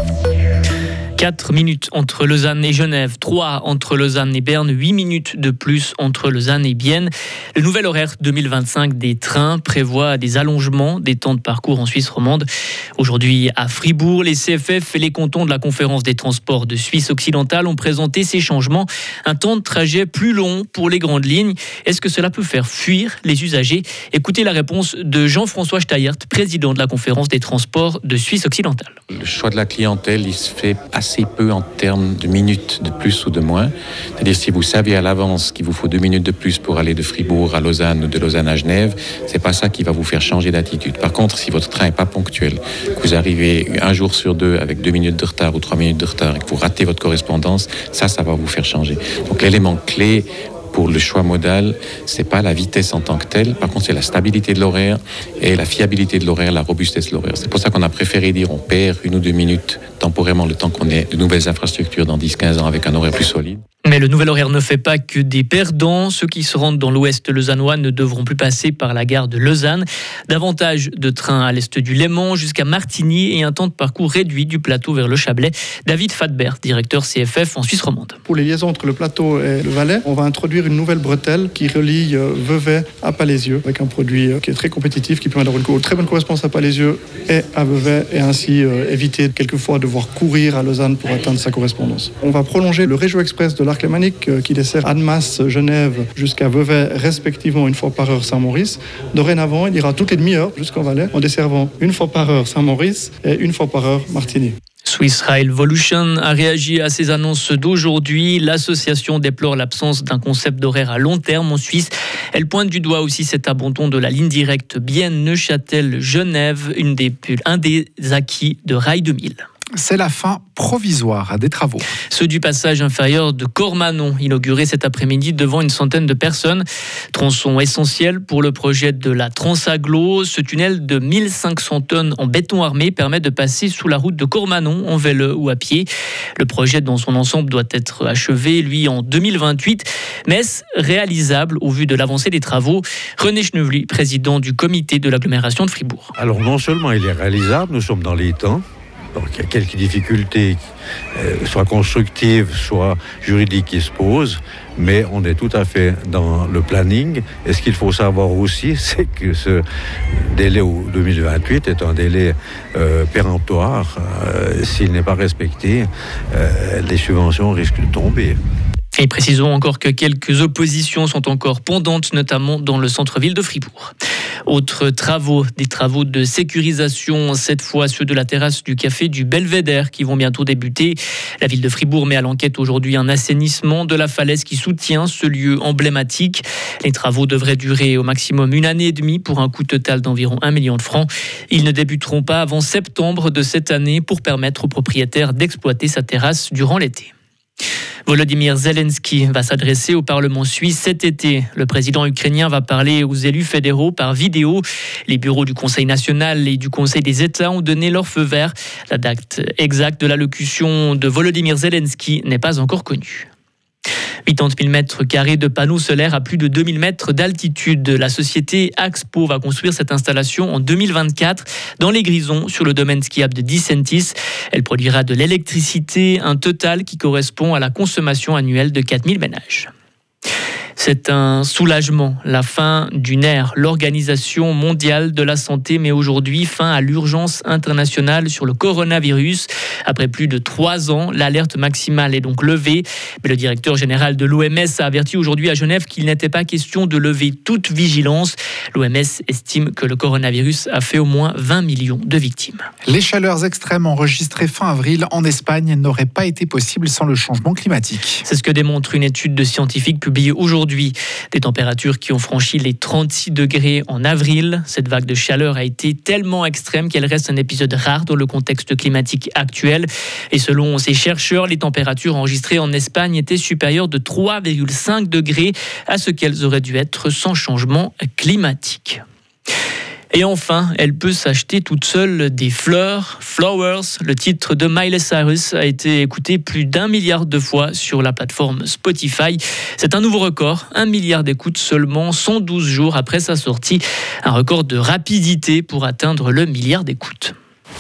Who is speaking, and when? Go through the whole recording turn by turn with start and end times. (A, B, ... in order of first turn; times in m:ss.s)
0:01.2-0:12.5 A
0:13.0-0:29.0 A
0:29.1-1:03.6 B
1:03.8-1:18.2 A
1:18.3-1:44.6 C
1:44.8-1:59.4 A
1:59.8-2:01.8 D
2:02.1-2:15.9 A
2:16.4-2:26.1 A
2:26.2-2:28.6 E
2:29.1-2:30.6 E
2:31.2-2:39.6 E
2:40.1-2:48.4 E
2:49.0-2:53.9 A
2:54.5-3:17.1 A
3:18.1-3:33.3 A
3:34.2-3:49.7 A
3:50.8-4:12.6 A
4:12.9-4:18.2 D
4:18.2-4:39.0 A
4:40.1-4:57.3 A